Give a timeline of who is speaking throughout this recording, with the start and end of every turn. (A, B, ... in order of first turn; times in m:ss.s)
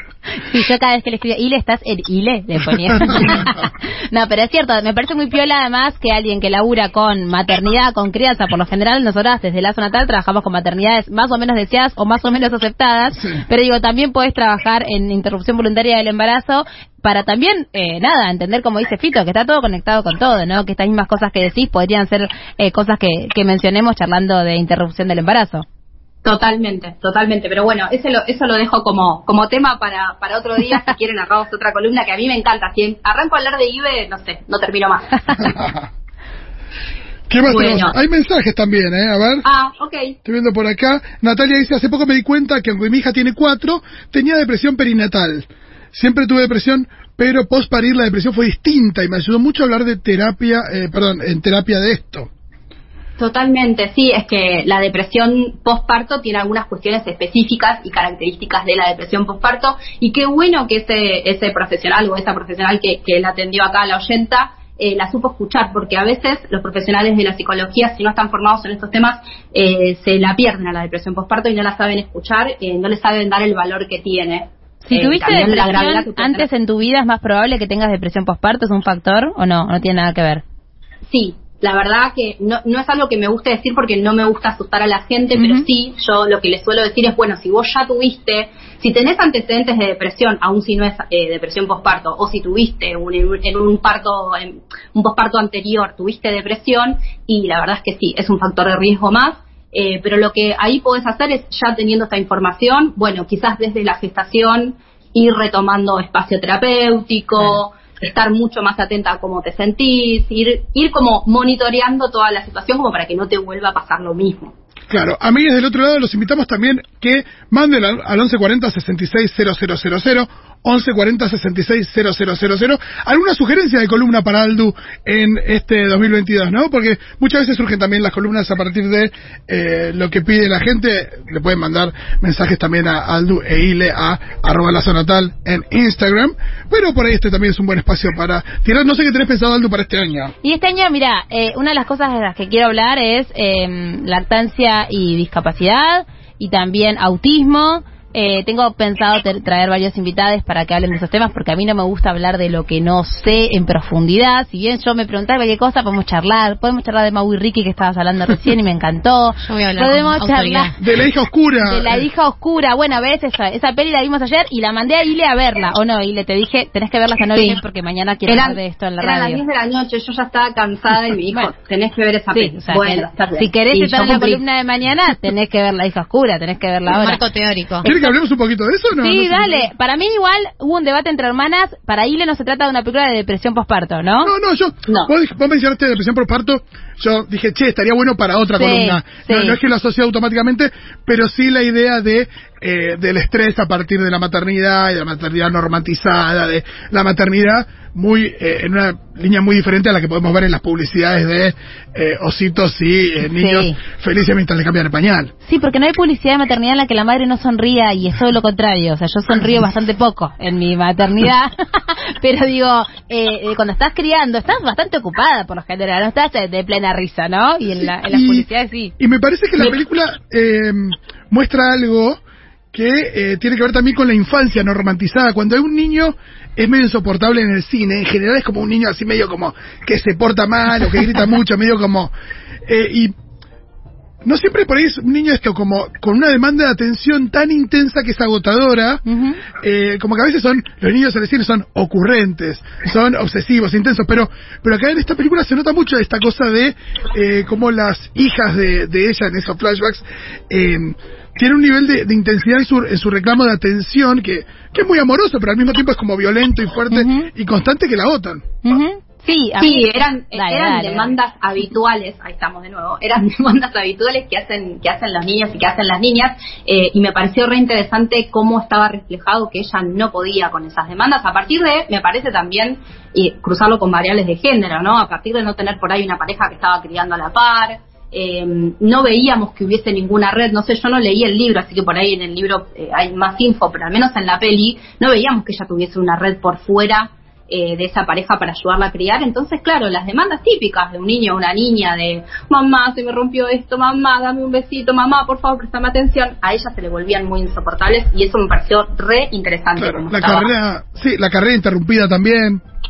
0:00.4-0:25.6 A
0:03.1-0:03.4 B
0:26.2-0:35.6 C
0:35.4-0:35.9 B
0:37.3-0:39.4 B
0:37.5-0:38.0 C
0:39.4-0:40.2 C
0:40.2-0:52.3 B
0:53.2-1:16.5 C
1:14.8-1:20.4 A
1:21.1-1:54.5 C
1:25.4-1:25.6 A
1:54.9-2:20.3 B
2:20.4-2:40.7 A
2:39.4-2:40.8 D
2:40.8-2:42.0 B
2:41.6-2:49.4 A
2:47.4-2:47.6 C
2:48.3-2:54.4 C
2:52.3-2:57.2 A
2:56.9-2:57.9 D
2:57.8-2:59.6 B
2:59.0-3:04.3 A
3:04.2-3:25.3 B
3:04.9-3:05.1 C
3:08.6-3:09.6 A
3:23.4-3:23.8 A
3:25.4-3:38.9 A
3:38.1-3:38.5 B
3:39.0-3:42.2 B
3:42.7-3:52.1 B
3:52.7-3:53.1 B
3:54.2-3:59.0 B
3:59.1-3:59.4 A
3:59.6-4:18.5 B
4:16.9-4:17.3 A
4:18.6-4:21.2 A
4:19.6-5:00.5 C
4:59.8-5:02.6 B